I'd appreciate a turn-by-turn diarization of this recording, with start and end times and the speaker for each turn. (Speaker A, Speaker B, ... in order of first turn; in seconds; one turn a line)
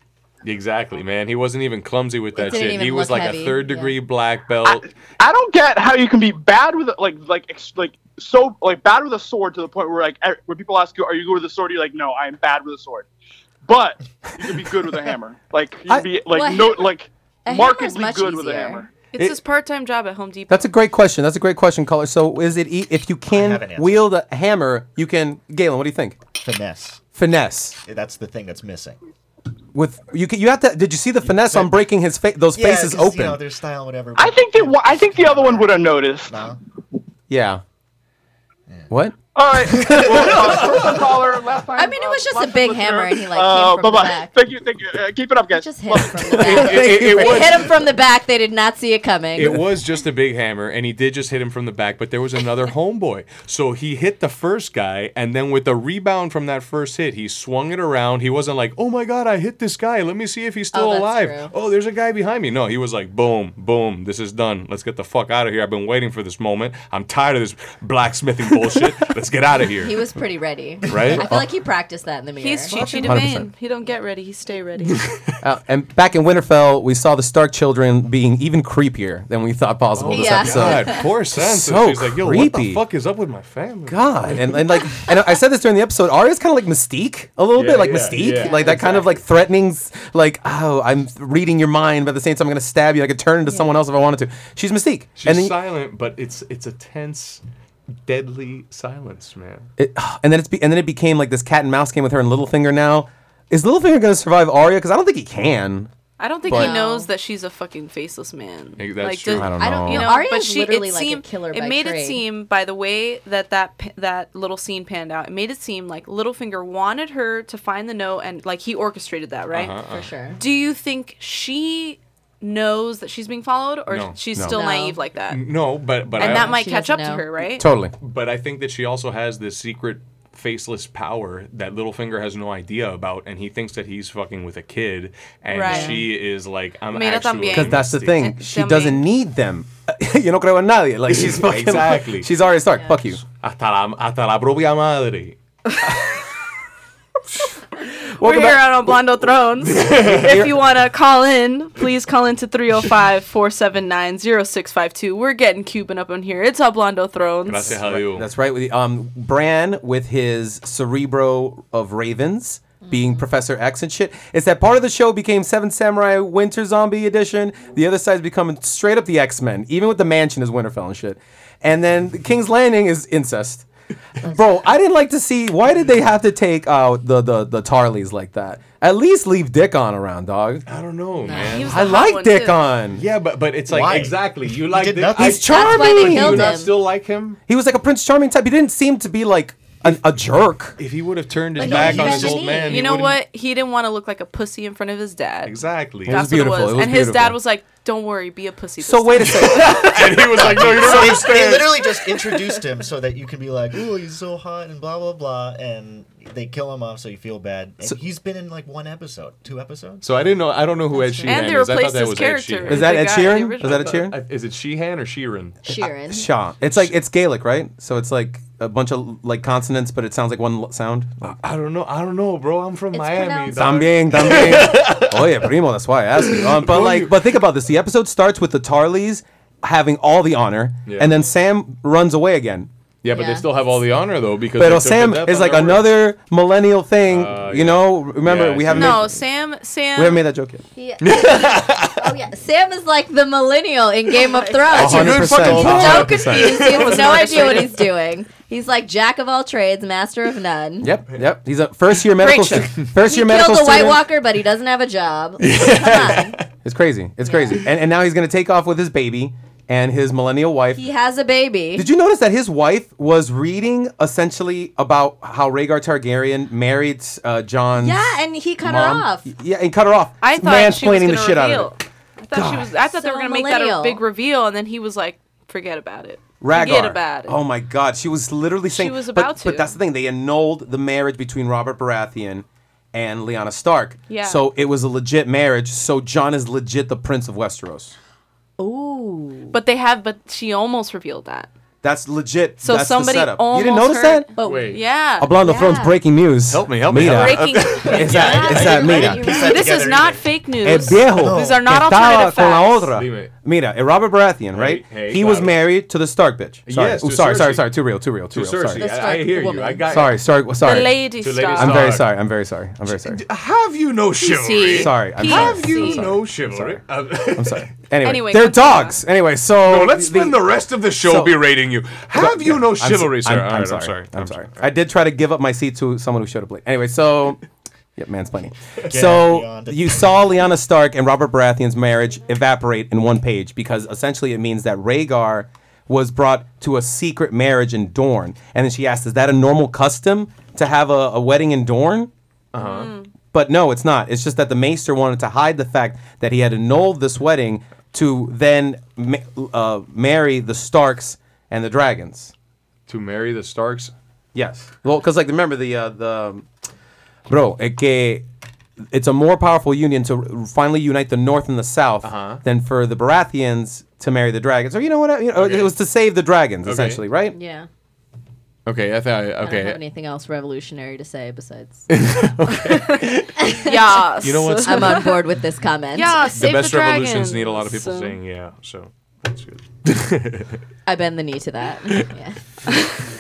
Speaker A: 0.4-4.9
Speaker B: 2.4-4.0
Speaker C: 4.7-13.1
Speaker C: 13.7-18.9
Speaker B: 16.3-16.9
Speaker B: 17.4-18.8
Speaker D: 19.1-20.7
Speaker E: 20.5-26.2
Speaker F: 23.3-24.0
Speaker F: 26.4-27.0
Speaker E: 27.2-27.8
Speaker F: 27.8-29.0
Speaker E: 29.7-33.4
Speaker F: 31.3-31.8
Speaker F: 32.5-36.6
Speaker C: 34.2-36.5
Speaker E: 37.3-37.6
Speaker E: 38.9-40.4
Speaker C: 39.4-46.7
Speaker F: 39.8-41.2
Speaker B: 41.8-44.3
Speaker B: 45.6-49.6
Speaker E: 46.4-47.5
Speaker A: 46.4-47.6
Speaker A: 49.4-70.0
Speaker B: 60.7-61.5
Speaker B: 69.8-72.8
Speaker A: 70.9-71.3
Speaker E: 71.2-71.5
Speaker D: 72.4-75.0
Speaker A: 72.8-73.2
Speaker E: 72.8-73.5
Speaker E: 75.4-82.8
Speaker A: 80.0-84.5
Speaker B: 80.1-81.0
Speaker E: 83.9-95.5
Speaker A: 87.5-89.2
Speaker B: 88.3-88.8
Speaker A: 95.2-97.4
Speaker A: 98.0-99.7
Speaker E: 99.8-105.9
Speaker D: 106.2-119.8
Speaker E: 106.5-106.8
Speaker B: 106.5-107.1
Speaker A: 108.8-109.5
Speaker E: 109.3-110.2
Speaker B: 109.6-112.2
Speaker A: 119.5-120.0
Speaker B: 119.9-120.4
Speaker D: 120.4-125.4
Speaker A: 123.9-124.2
Speaker B: 124.5-125.0
Speaker A: 125.3-126.6
Speaker D: 126.2-127.7
Speaker B: 126.2-127.3
Speaker E: 127.6-127.9
Speaker A: 128.0-138.2
Speaker D: 135.5-136.1
Speaker B: 135.7-136.0
Speaker D: 136.9-139.1
Speaker E: 137.5-143.2
Speaker A: 141.1-142.3
Speaker A: 143.2-145.4
Speaker D: 148.0-157.7
Speaker E: 148.2-148.9
Speaker A: 149.6-150.6
Speaker E: 150.0-150.6
Speaker A: 157.5-158.3
Speaker E: 157.7-173.7
Speaker B: 162.8-163.2
Speaker E: 174.2-180.7
Speaker A: 180.7-181.9
Speaker B: 181.2-181.7
Speaker D: 181.3-182.6
Speaker E: 181.7-183.0
Speaker A: 183.0-187.4
Speaker F: 183.7-185.7
Speaker E: 185.2-186.6
Speaker B: 185.5-186.7
Speaker E: 187.5-190.8
Speaker A: 190.8-193.2
Speaker B: 191.6-192.9
Speaker F: 191.6-192.4
Speaker D: 192.7-199.9
Speaker A: 195.5-196.2
Speaker E: 196.1-197.4
Speaker E: 198.8-200.1
Speaker A: 199.2-201.9
Speaker F: 200.3-210.1
Speaker A: 210.0-212.9
Speaker B: 210.9-211.4
Speaker D: 211.3-213.9
Speaker E: 212.7-214.2
Speaker A: 213.6-215.6
Speaker B: 215.7-216.3
Speaker E: 215.8-221.3
Speaker A: 216.6-216.9
Speaker A: 221.2-225.2
Speaker B: 222.9-223.6
Speaker E: 223.5-232.7
Speaker A: 226.3-227.2
Speaker A: 230.9-231.1
Speaker A: 233.0-235.9
Speaker B: 233.1-233.5
Speaker E: 234.6-239.2
Speaker A: 237.1-239.1
Speaker D: 238.7-240.2
Speaker E: 239.9-240.6
Speaker B: 240.8-250.9
Speaker A: 241.0-242.0
Speaker D: 244.2-244.9
Speaker E: 244.7-246.7
Speaker A: 244.7-247.5
Speaker D: 246.2-247.8
Speaker E: 250.8-254.1
Speaker B: 252.2-256.4
Speaker A: 255.4-256.5
Speaker E: 256.6-260.8
Speaker B: 257.2-257.6
Speaker B: 260.8-261.9
Speaker E: 261.8-271.7
Speaker B: 267.8-269.3
Speaker D: 270.2-277.4
Speaker E: 272.3-272.7
Speaker B: 273.0-274.0
Speaker E: 276.4-288.0
Speaker D: 278.7-279.8
Speaker D: 284.1-284.4
Speaker B: 288.6-289.6
Speaker D: 289.5-291.5
Speaker E: 291.8-294.3
Speaker D: 292.6-295.3
Speaker B: 294.4-294.8
Speaker A: 294.4-294.8
Speaker E: 295.2-299.4
Speaker B: 295.4-296.0
Speaker A: 296.5-298.5
Speaker D: 296.9-298.4
Speaker F: 297.9-301.6
Speaker B: 298.0-299.9
Speaker D: 299.4-302.9
Speaker E: 300.6-308.9
Speaker A: 302.9-303.3
Speaker A: 304.5-305.6
Speaker A: 306.7-307.7
Speaker A: 308.3-310.2
Speaker B: 308.8-309.9
Speaker E: 309.9-313.2
Speaker D: 310.6-311.8
Speaker A: 311.2-312.1
Speaker A: 312.9-317.7
Speaker D: 314.2-316.1
Speaker E: 314.8-321.4
Speaker D: 318.0-319.0
Speaker A: 319.6-324.6
Speaker E: 322.1-327.4
Speaker E: 328.0-342.1
Speaker F: 328.9-330.2
Speaker A: 342.5-342.9
Speaker D: 342.6-343.1
Speaker E: 343.3-352.3
Speaker A: 352.9-353.9
Speaker E: 354.3-356.5
Speaker E: 357.3-358.2
Speaker E: 358.9-367.4
Speaker A: 362.0-362.4
Speaker A: 365.4-365.7
Speaker A: 366.6-367.0
Speaker B: 367.3-367.7
Speaker A: 368.7-369.8
Speaker B: 369.4-371.9
Speaker A: 371.9-373.5
Speaker B: 373.4-373.7
Speaker D: 373.6-375.2
Speaker A: 374.2-375.1
Speaker B: 374.6-376.3
Speaker D: 375.9-378.2
Speaker A: 376.3-380.6
Speaker B: 380.9-382.4